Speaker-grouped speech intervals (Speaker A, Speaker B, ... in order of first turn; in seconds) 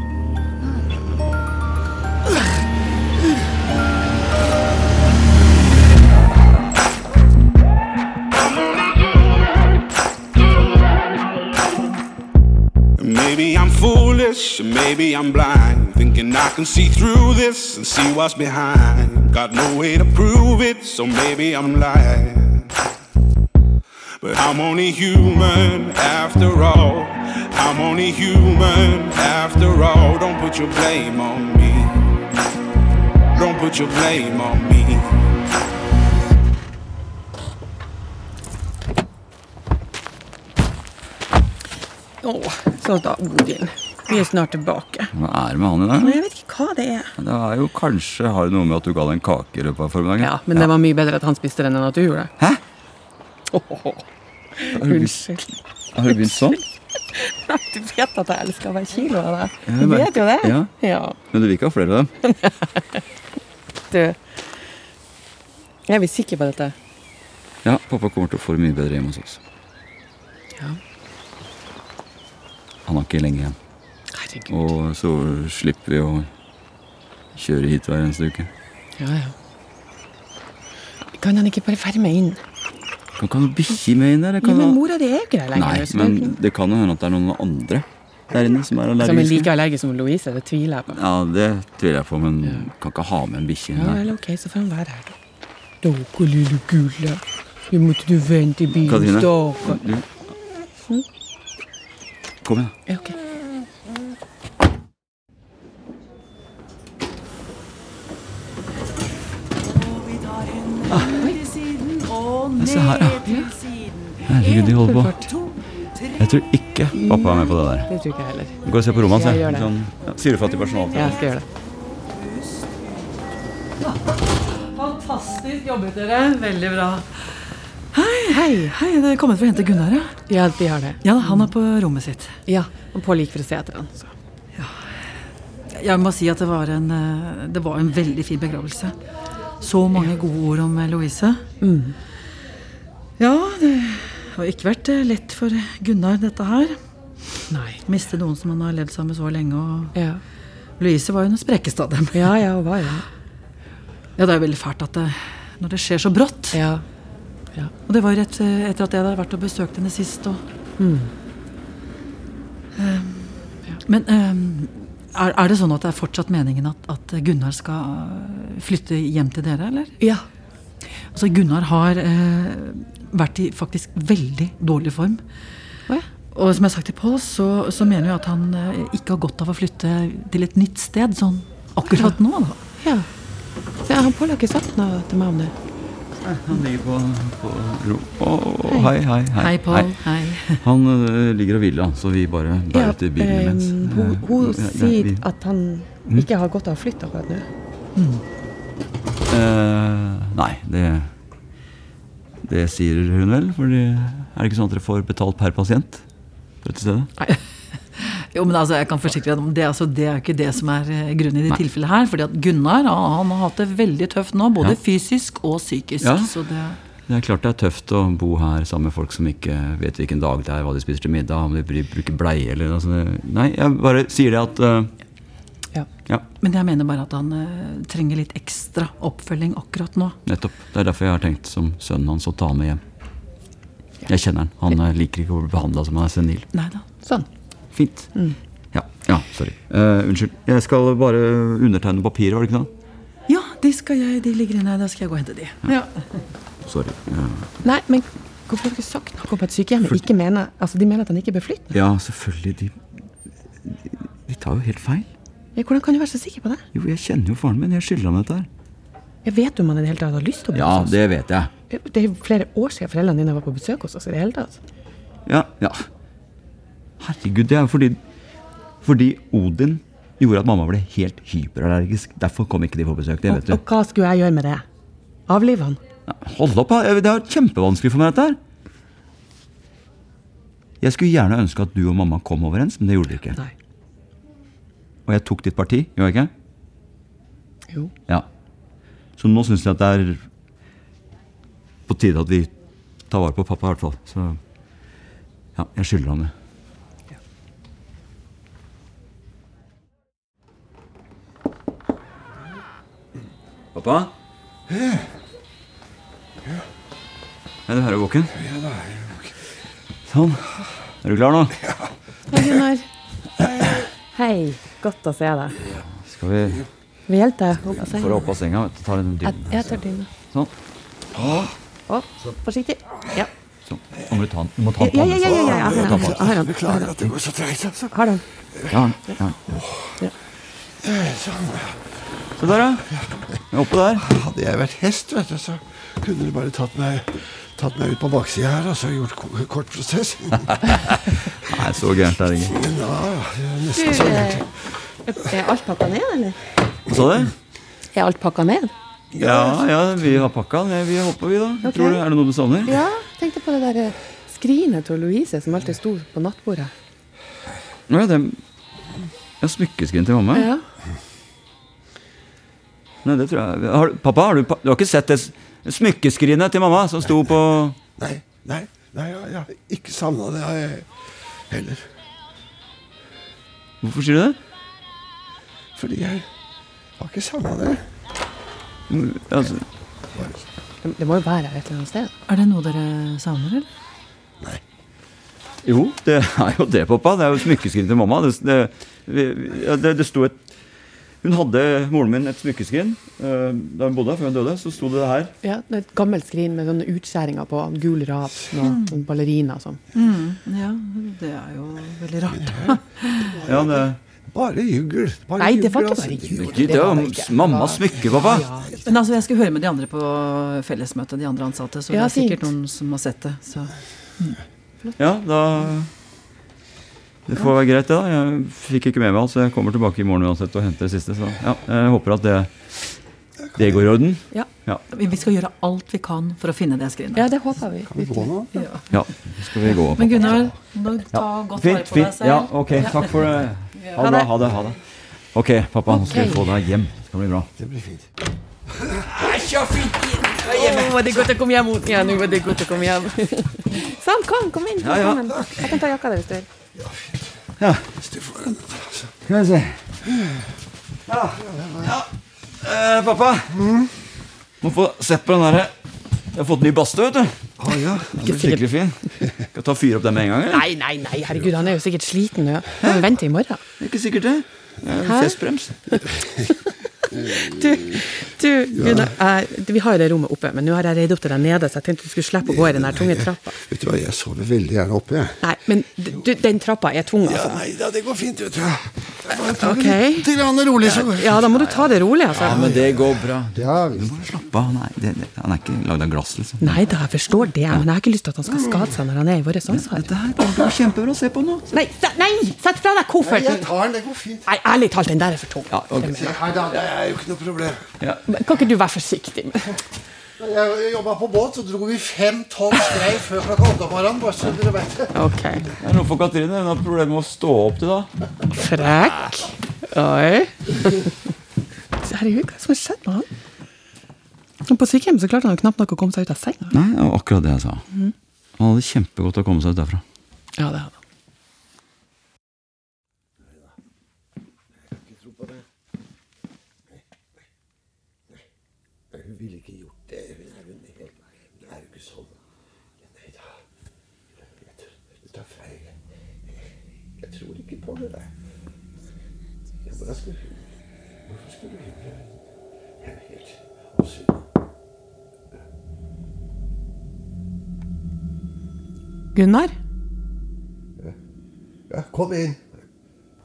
Speaker A: 13.0-22.7, 24.2-32.0, 33.3-35.2
Speaker B: 42.2-45.1, 46.0-47.1, 50.2-52.3, 53.5-54.0, 54.6-55.4, 56.1-56.6, 57.1-61.2, 62.2-62.8, 63.9-64.2, 65.9-66.8, 74.1-74.7, 79.0-79.3, 81.2-82.4, 84.4-86.4, 89.0-91.0, 92.4-92.7, 93.7-95.1, 95.8-99.8, 102.9-103.2, 114.8-115.3, 116.9-119.7, 120.9-121.4, 128.3-128.8, 130.3-131.5, 132.5-134.1, 141.6-142.0, 147.5-147.8, 149.9-150.2, 152.1-153.0, 156.5-156.8, 160.8-161.1, 170.0-170.2, 182.8-183.1, 183.8-185.5, 192.7-197.5, 236.5-237.3, 247.6-251.7, 255.6-256.6, 259.2-261.0, 261.7-264.6, 273.3-274.6, 275.3-275.8, 312.3-312.9, 313.5-315.6, 317.1-318.1, 319.4-320.1, 321.9-323.3, 324.8-326.9, 327.9-328.2, 343.7-344.4, 345.1-346.4, 347.9-348.7, 351.6-352.0, 352.7-356.7, 360.3-360.6, 380.8-382.1, 395.4-399.8, 405.4-408.7, 411.9-412.5, 427.1-428.7, 434.0-434.3, 435.9-436.5, 440.4-446.5, 458.2-458.6, 460.5-463.6, 465.0-465.4, 467.0-473.6, 475.4-477.6, 479.3-480.3, 481.0-482.6, 486.6-490.1, 491.7-493.7, 494.5-496.4, 498.3-499.7, 505.1-505.7, 508.6-511.1, 512.0-513.3, 514.6-516.8, 520.6-521.0, 549.4-549.8
Speaker C: 45.1-46.2, 47.2-50.7, 54.8-55.4, 55.9-56.6, 59.7-62.1, 67.6-69.4, 72.9-73.6, 74.5-76.3, 77.3-78.5, 83.2-84.8, 85.5-89.5, 90.9-94.0, 98.8-100.1, 102.4-102.8, 110.9-111.2, 112.6-113.3, 114.2-115.2, 116.2-117.9, 118.6-121.2, 186.2-195.2, 199.3-201.1, 202.4-206.0, 206.6-207.1, 216.0-216.3, 217.1-224.9, 230.2-232.8, 234.1-236.5, 237.7-238.1, 238.7-242.7, 246.7-247.5, 251.7-252.7, 253.6-255.1, 256.7-258.5, 260.5-261.5, 265.2-265.9, 267.0-268.0, 268.8-273.6, 276.1-278.4, 280.8-283.4, 285.1-286.3, 289.2-290.2, 291.9-292.5, 293.1-294.4, 295.6-296.3, 303.8-304.1, 307.7-308.4, 310.1-311.6, 315.8-316.6, 317.8-319.7, 321.2-321.5, 323.7-326.4, 328.7-329.4, 332.4-332.9, 333.5-334.1, 340.5-342.6, 346.9-347.3, 349.1-352.8, 357.9-358.4, 359.4-360.5, 363.0-367.8, 373.8-374.4, 378.9-379.7, 385.6-390.4, 391.2-395.3, 403.4-404.0, 406.4-408.5, 415.0-415.9, 417.3-422.5, 423.6-424.8, 428.9-430.5, 431.1-434.8, 435.3-437.5, 439.1-441.2, 444.8-445.8, 447.6-447.9, 449.2-449.8, 451.1-452.1, 452.6-453.6, 454.6-455.7, 456.3-457.4, 458.0-460.6, 463.8-465.8, 480.9-486.9, 489.7-491.7, 495.7-496.3, 505.8-508.1, 516.7-517.8, 518.6-520.0
Speaker D: 110.1-115.5, 123.8-127.3, 127.9-130.2, 131.0-132.3, 134.6-134.9, 135.7-138.9, 139.6-141.4, 143.2-146.8, 147.8-149.9, 150.8-152.4, 154.2-156.6, 157.9-160.4, 162.8-170.0, 171.1-175.2, 176.3-182.6, 189.3-190.6, 198.0-198.2, 208.0-216.8, 226.4-230.2, 243.3-246.0, 382.3-383.7, 398.6-398.9, 399.9-403.4, 408.9-414.4, 424.9-427.3, 428.5-428.8, 429.8-432.9
Speaker E: 304.7-305.1, 308.3-309.4, 321.1-321.5, 325.2-327.9, 329.5-330.0, 330.8-331.8, 334.0-340.5, 342.5-344.5, 349.2-349.6, 368.0-370.9, 371.5-371.9, 375.8-376.2, 377.0-377.8, 402.3-407.1, 423.4-424.0, 427.9-428.5, 437.6-438.1, 438.8-439.1, 446.8-447.4, 447.9-449.1, 450.0-450.5, 451.3-452.0, 453.5-453.9, 457.6-458.1, 467.1-468.0, 468.7-469.1, 472.5-475.4, 477.2-481.4, 482.3-484.4, 493.2-494.5, 496.1-497.8, 500.4-505.1, 524.9-525.6, 529.1-532.4, 533.0-533.6, 534.6-536.0, 537.2-538.3, 539.8-540.5, 541.2-542.3, 543.0-544.5, 551.9-552.7